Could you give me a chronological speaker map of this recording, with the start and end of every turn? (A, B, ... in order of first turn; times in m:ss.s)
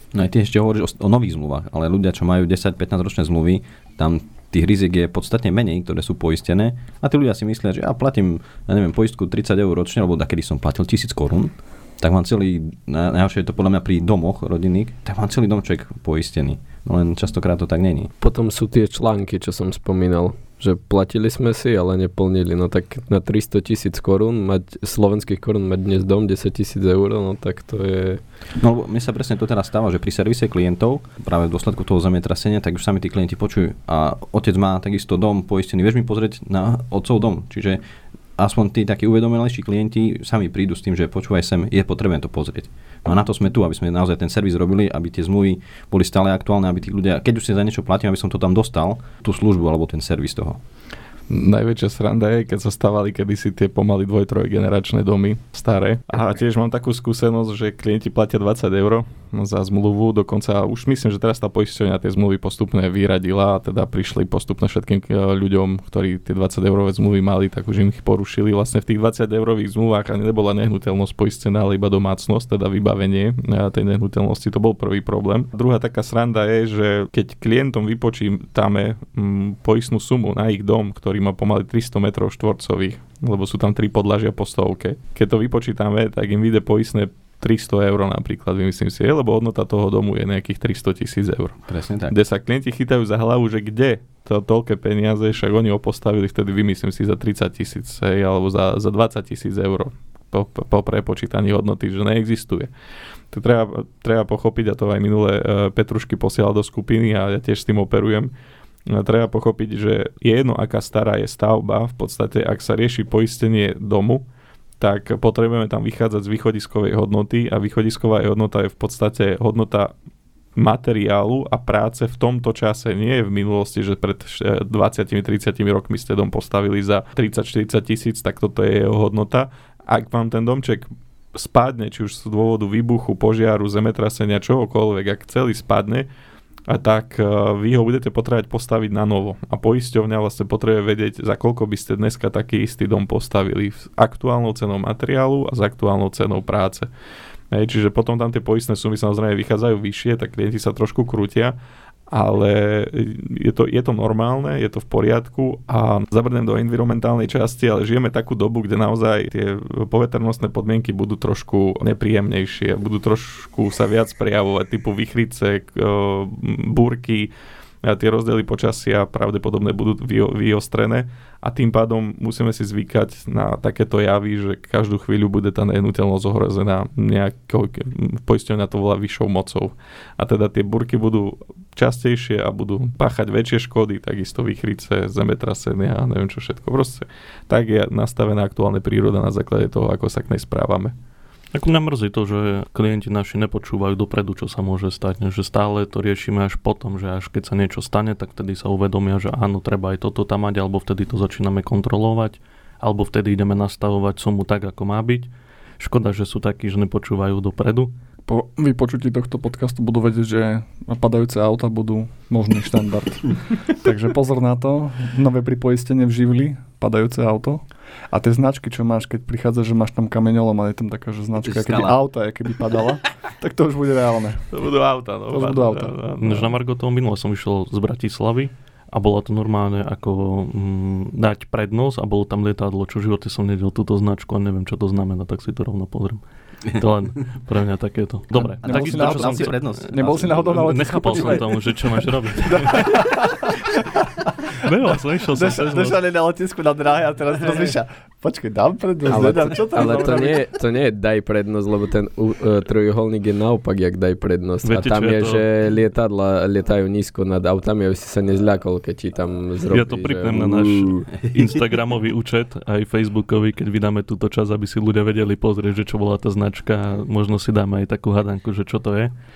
0:00.1-0:18.1 A
0:18.2-0:28.2 B
0:28.6-0:37.8 A
0:38.4-0:50.6 A
0:51.3-1:42.7 C
1:31.7-1:32.1 A
1:43.3-1:48.3 C
1:48.9-1:54.2 C
1:54.8-1:59.9 C
2:00.6-2:16.1 C
2:16.7-2:26.9 C
2:27.5-2:31.6 C
2:32.1-2:47.3 C
2:47.8-3:11.0 C
3:11.5-3:27.9 D
3:28.3-3:44.5 E
3:41.4-3:42.0 A
3:44.5-3:46.5 C
3:45.3-3:46.0 E
3:46.2-4:03.0 D
3:58.4-4:04.0 E
3:58.6-4:01.4 A
4:04.6-4:06.0 D
4:05.3-4:10.5 E
4:09.1-4:21.0 B
4:14.6-4:15.5 D
4:19.6-4:29.1 D
4:21.3-4:21.6 A